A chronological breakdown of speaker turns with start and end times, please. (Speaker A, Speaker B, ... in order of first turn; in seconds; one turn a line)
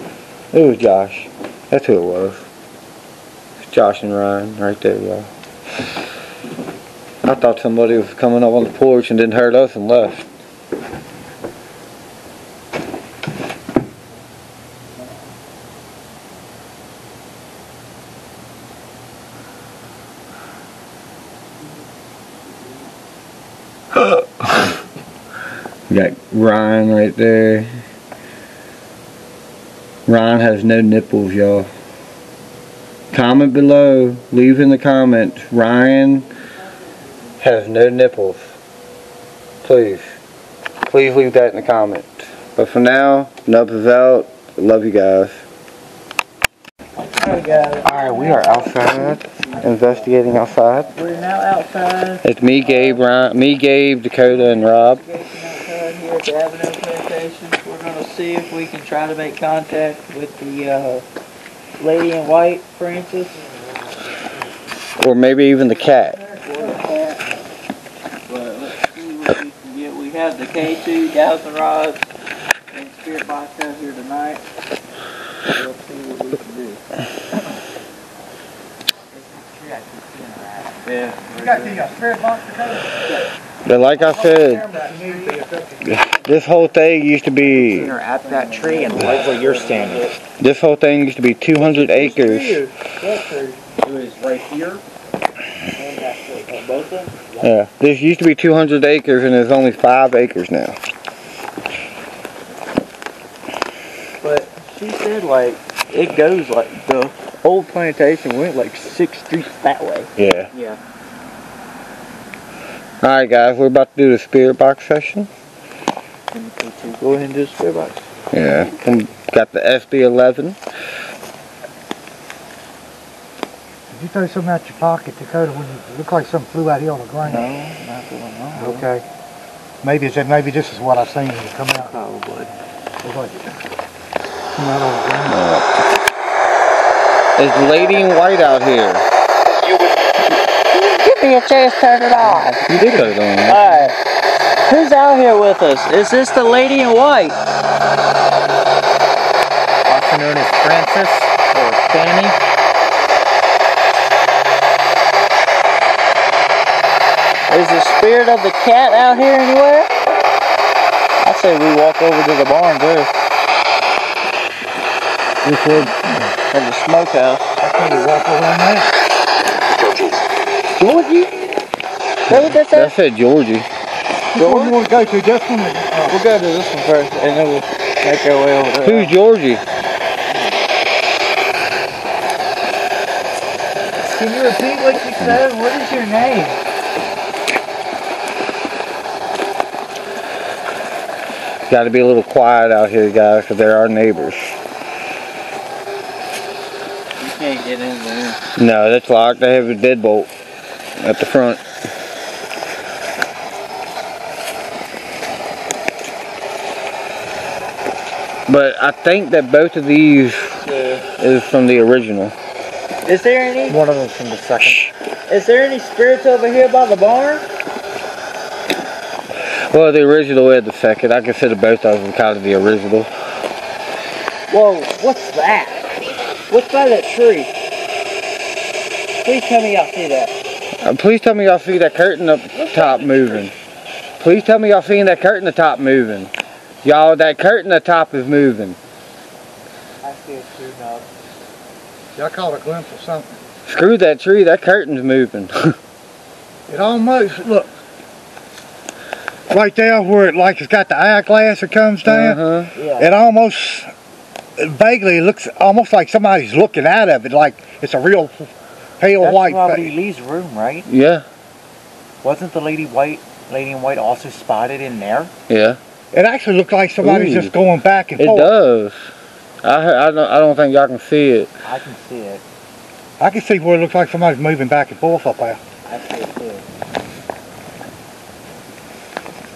Speaker A: 0.5-2.5
Speaker A: 3.7-5.3
Speaker A: 7.2-10.3
Speaker A: 25.9-27.7
Speaker A: 30.1-31.7
Speaker A: 33.1-36.3
Speaker A: 37.4-38.5
Speaker A: 39.6-40.1
Speaker A: 40.9-45.4
Speaker B: 47.0-49.6
Speaker A: 47.8-50.9
Speaker B: 50.9-53.0
Speaker A: 52.2-55.0
Speaker B: 54.2-61.0
Speaker B: 61.8-63.4
Speaker A: 65.0-66.2
Speaker B: 66.4-67.2
Speaker B: 68.3-72.0
Speaker B: 72.7-74.4
Speaker B: 75.5-76.8
Speaker C: 79.1-80.8
Speaker B: 80.8-81.5
Speaker D: 81.3-83.2
Speaker A: 83.7-84.7
Speaker D: 83.9-86.0
Speaker C: 84.7-85.4
Speaker A: 85.9-87.9
Speaker C: 87.4-90.1
Speaker B: 88.3-90.1
Speaker A: 90.4-92.6
Speaker B: 91.6-94.8
Speaker B: 95.7-97.5
Speaker A: 97.4-100.8
Speaker B: 104.2-110.6
Speaker A: 110.2-110.5
Speaker A: 113.0-115.3
Speaker B: 116.3-118.0
Speaker A: 118.3-120.6
Speaker D: 123.9-127.5
Speaker B: 127.2-128.8
Speaker D: 128.5-129.0
Speaker D: 129.8-131.9
Speaker B: 131.9-132.5
Speaker D: 133.0-133.6
Speaker D: 134.6-135.4
Speaker A: 135.3-135.8
Speaker A: 137.4-139.0
Speaker B: 139.6-139.9
Speaker B: 140.7-142.7
Speaker A: 142.7-143.6
Speaker B: 143.5-143.9
Speaker B: 144.7-147.4
Speaker C: 149.9-152.4
Speaker B: 157.5-159.9
Speaker B: 161.2-163.1
Speaker D: 165.4-166.2
Speaker B: 166.5-167.6
Speaker D: 167.6-168.9
Speaker B: 170.8-171.4
Speaker B: 172.3-172.9
Speaker A: 172.3-173.7
Speaker D: 174.3-176.2
Speaker B: 174.3-174.8
Speaker B: 176.1-179.1
Speaker A: 178.8-179.6
Speaker B: 180.3-180.6
Speaker B: 184.1-186.6
Speaker A: 191.7-194.6
Speaker B: 197.2-198.4
Speaker A: 198.6-200.3
Speaker A: 201.0-201.6
Speaker A: 208.5-210.6
Speaker B: 210.6-211.0
Speaker A: 211.2-212.3
Speaker B: 213.0-213.8
Speaker C: 213.7-214.8
Speaker B: 215.3-217.4
Speaker A: 219.7-223.1
Speaker B: 224.5-227.5
Speaker B: 229.2-230.3
Speaker A: 230.8-233.5
Speaker B: 232.6-233.4
Speaker A: 234.2-236.3
Speaker A: 236.8-238.8
Speaker B: 240.0-241.0
Speaker D: 242.2-243.3
Speaker A: 243.7-245.8
Speaker D: 246.7-247.7
Speaker D: 249.5-252.4
Speaker A: 252.1-252.7
Speaker B: 252.8-253.1
Speaker D: 253.0-253.9
Speaker D: 254.6-259.9
Speaker C: 259.2-260.9
Speaker A: 260.9-261.2
Speaker C: 262.2-265.3
Speaker A: 265.5-265.8
Speaker D: 266.1-268.5
Speaker A: 267.0-267.5
Speaker A: 268.2-269.1
Speaker A: 269.6-271.5
Speaker C: 271.6-272.4
Speaker D: 273.2-275.6
Speaker B: 275.9-276.6